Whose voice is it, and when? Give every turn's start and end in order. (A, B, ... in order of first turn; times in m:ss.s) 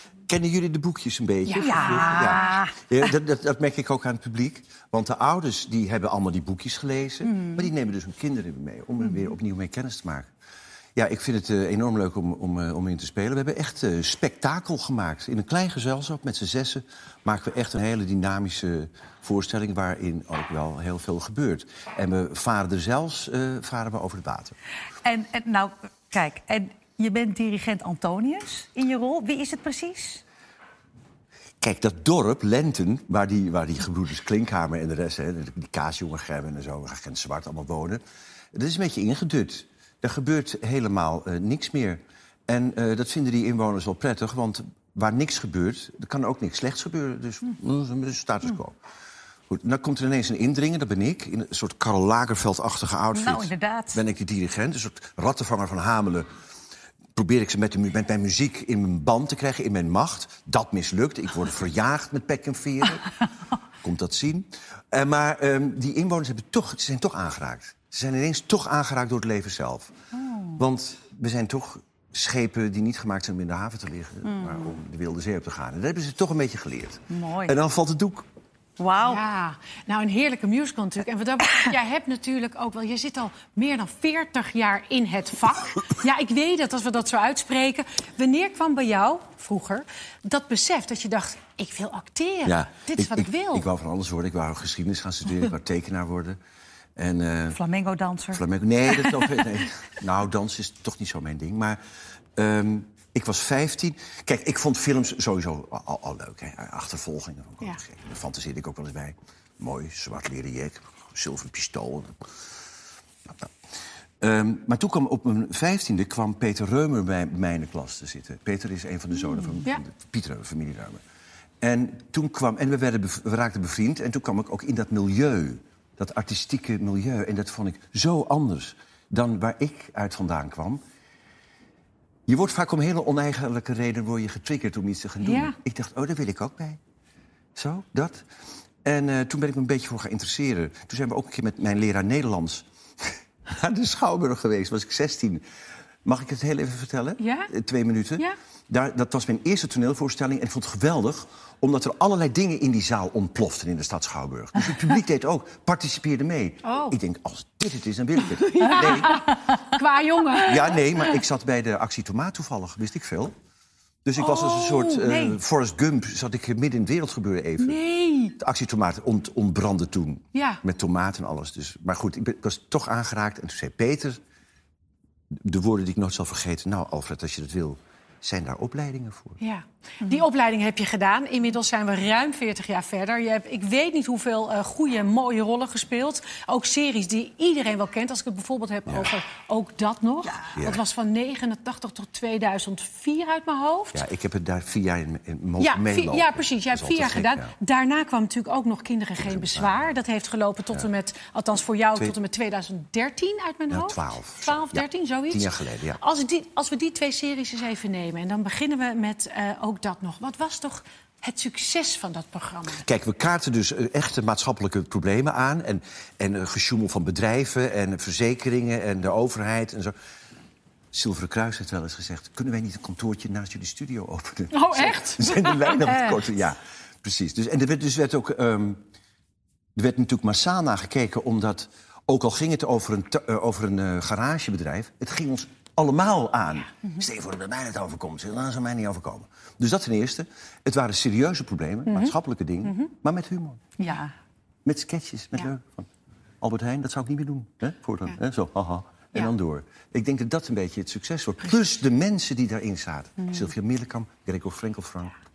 0:00.3-0:10.3 A
0:01.5-0:02.5 B
0:01.6-0:02.9 C
0:07.2-0:07.7 C
0:11.0-0:24.6 A
0:25.0-0:30.2 C
0:31.6-0:38.0 A
0:38.5-0:48.8 A
0:49.5-0:56.3 A
0:53.1-0:54.0 C
0:57.2-1:03.1 A
1:03.8-1:09.9 A
1:10.1-1:10.6 C
1:10.6-1:18.3 A
1:14.3-1:14.7 C
1:17.1-1:17.6 C
1:18.8-1:19.2 C
1:19.0-1:33.7 B
1:32.5-1:36.4 A
1:37.0-1:37.6 A
1:37.5-1:39.3 C
1:38.3-1:41.8 A
1:42.4-1:52.3 A
1:54.2-2:01.0 A
2:01.6-2:10.8 A
2:12.3-2:16.8 A
2:15.2-2:15.6 B
2:17.6-2:18.2 A
2:18.8-2:25.4 A
2:26.0-2:39.2 A
2:27.2-2:27.5 B
2:36.6-2:37.0 B
2:38.3-2:40.9 B
2:40.4-2:43.3 A
2:44.0-2:47.8 A
2:44.2-2:45.4 B
2:47.6-2:48.4 B
2:48.4-2:54.2 A
2:50.4-2:50.6 B
2:55.4-2:59.4 A
2:59.4-3:14.0 B
3:10.6-3:10.8 A
3:13.9-3:17.6 A
3:15.6-3:32.8 B
3:19.2-3:19.9 A
3:23.7-3:26.0 A
3:32.7-3:39.9 A
3:40.9-3:48.8 A
3:44.5-3:46.2 B
3:49.8-4:03.6 A
4:01.9-4:02.9 B
4:03.8-4:04.1 C
4:04.6-4:05.9 A
4:06.4-4:15.2 A